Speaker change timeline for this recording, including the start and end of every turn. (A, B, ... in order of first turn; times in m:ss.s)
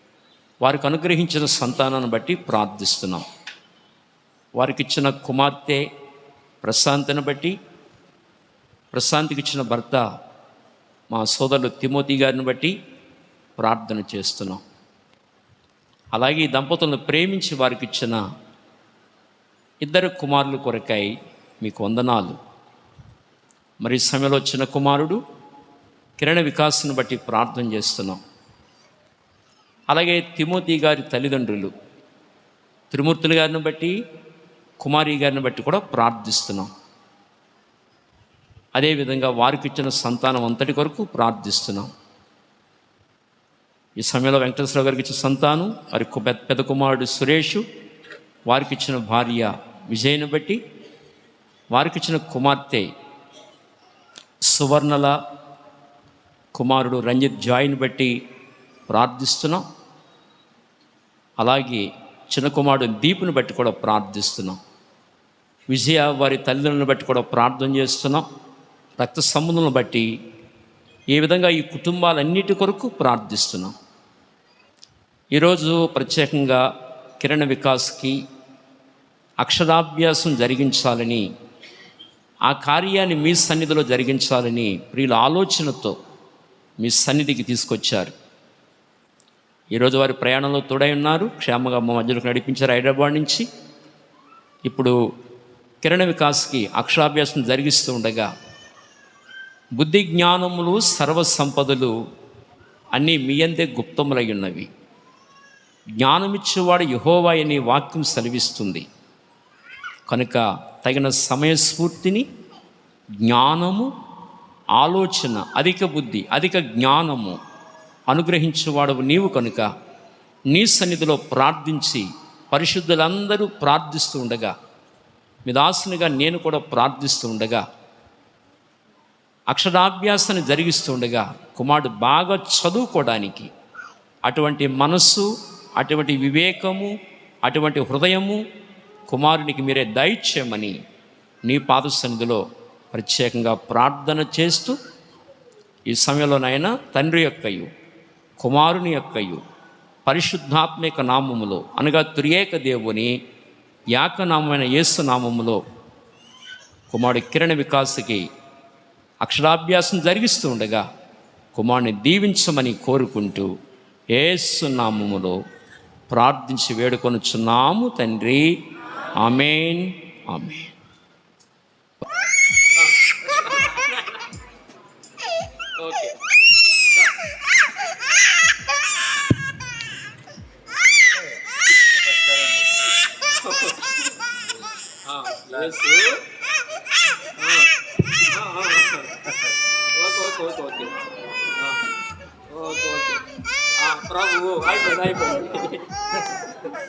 0:00.6-0:03.2 A
0:04.6-0:05.9 A
0:06.6-0:07.6 A
0:08.9-0:10.0 A
0:11.1-0:12.8 A
0:13.6-0:14.6 A
0:16.1-0:18.2 A
0:19.8-0:22.4 A
0:23.8-0:25.2 A
0:26.2-0:28.2 A
0:29.9-0:31.7 A
0:32.9-0:34.0 A
0:34.8-0:36.7 A
0:38.8-0:41.9 A
0:44.0-0:47.6 A
0:48.5-0:50.6 A
0:51.7-0:52.9 A
0:54.4-0:55.2 A
0:56.5-0:58.2 A
0:58.9-0:59.6 A
1:01.4-1:04.6 A
1:05.7-1:08.2 A
1:09.0-1:10.1 A
1:11.1-1:13.7 A
1:15.3-1:16.6 A
1:17.2-1:18.2 A
1:19.4-1:21.3 A
1:22.4-1:26.0 A
1:26.8-1:28.1 A
1:29.7-1:33.5 A
1:34.6-1:35.0 A
1:35.8-1:38.3 A
1:39.8-1:41.9 A
1:42.9-1:44.7 A
1:46.0-1:48.8 A
1:50.1-1:52.3 A
1:53.2-1:53.9 A
1:54.8-1:57.4 A
1:58.1-1:59.7 A
2:00.5-2:04.5 A
2:05.4-2:07.6 A
2:09.5-2:13.5 A
2:14.2-2:16.9 A
2:17.4-2:18.4 A
2:19.1-2:20.8 A
2:21.4-2:24.8 A
2:25.9-2:27.7 A
2:28.4-2:29.4 A
2:30.0-2:33.1 A
2:33.9-2:35.6 A
2:36.9-2:38.2 A
2:39.2-2:40.8 A
2:41.5-2:43.5 A
2:44.1-2:45.4 A
2:46.1-2:48.5 A
2:49.2-2:50.7 A
2:52.8-2:54.2 A
2:55.8-2:56.2 A
3:03.4-3:04.1 A
3:05.0-3:06.2 A
3:07.4-3:07.7 A
3:08.3-3:09.2 A
3:09.9-3:11.0 A
3:11.6-3:11.9 A
3:12.5-3:13.2 A
3:13.8-3:16.0 A